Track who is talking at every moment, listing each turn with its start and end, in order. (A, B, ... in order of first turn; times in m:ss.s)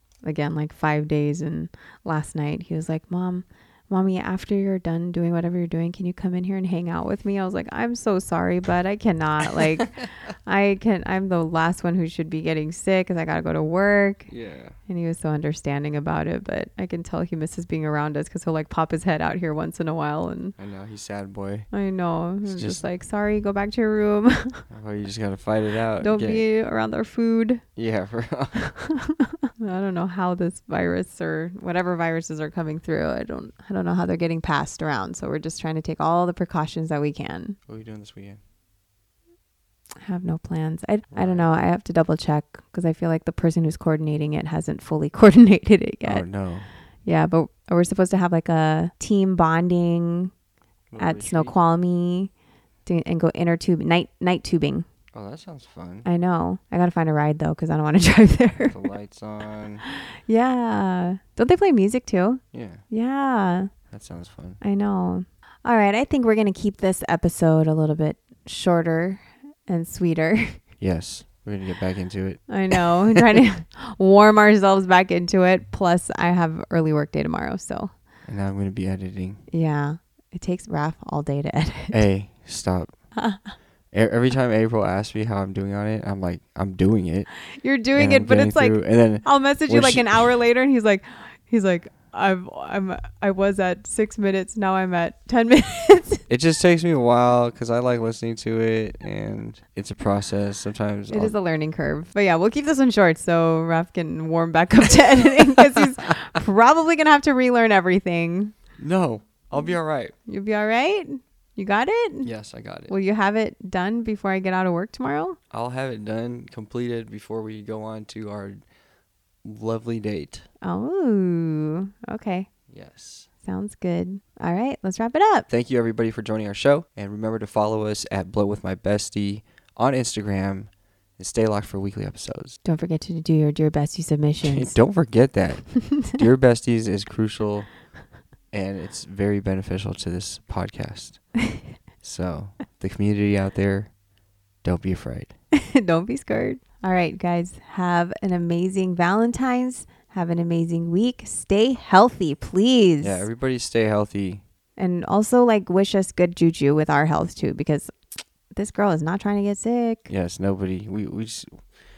0:00.2-0:14.3 A
0:14.3-0:14.8 B
0:14.9-0:20.6 A
0:20.6-0:21.7 B
0:21.7-0:24.6 A
0:22.4-0:22.8 B
0:24.7-0:26.4 B
0:26.0-0:27.6 A
0:27.8-0:28.7 B
0:28.8-0:37.6 A
0:37.7-0:38.4 B
0:40.0-0:46.2 A
0:41.1-0:41.5 B
0:46.0-0:46.7 B
0:47.0-0:50.3 A
0:50.9-0:51.6 B
0:51.0-0:52.3 A
0:52.9-0:54.9 A
0:55.1-0:56.1 B
0:56.0-0:58.8 A
0:58.6-0:59.8 B
0:59.9-1:03.7 A
1:02.5-1:02.8 B
1:03.9-1:04.6 B
1:04.6-1:10.6 A
1:10.8-1:13.4 B
1:12.5-1:17.9 A
1:18.3-1:19.4 B
1:19.5-1:22.0 A
1:21.9-1:22.9 B
1:23.2-1:23.6 A
1:23.9-1:27.3 B
1:27.6-1:36.2 A
1:28.0-1:30.3 B
1:36.3-1:41.3 B
1:41.1-1:48.6 A
1:48.8-1:50.1 B
1:50.3-1:52.3 A
1:52.2-1:52.9 B
1:52.9-1:55.4 A
1:55.5-1:58.6 B
1:59.4-2:00.5 B
2:00.6-2:02.5 A
2:02.7-2:03.3 B
2:03.4-2:05.5 A
2:05.5-2:12.6 B
2:12.6-2:14.8 A
2:14.4-2:17.7 B
2:15.8-2:16.2 A
2:18.5-2:21.2 B
2:22.0-2:23.9 B
2:24.6-2:25.3 B
2:25.5-2:33.3 A
2:33.0-2:34.4 B
2:34.8-2:37.9 A
2:38.5-2:40.1 A
2:40.1-2:41.7 B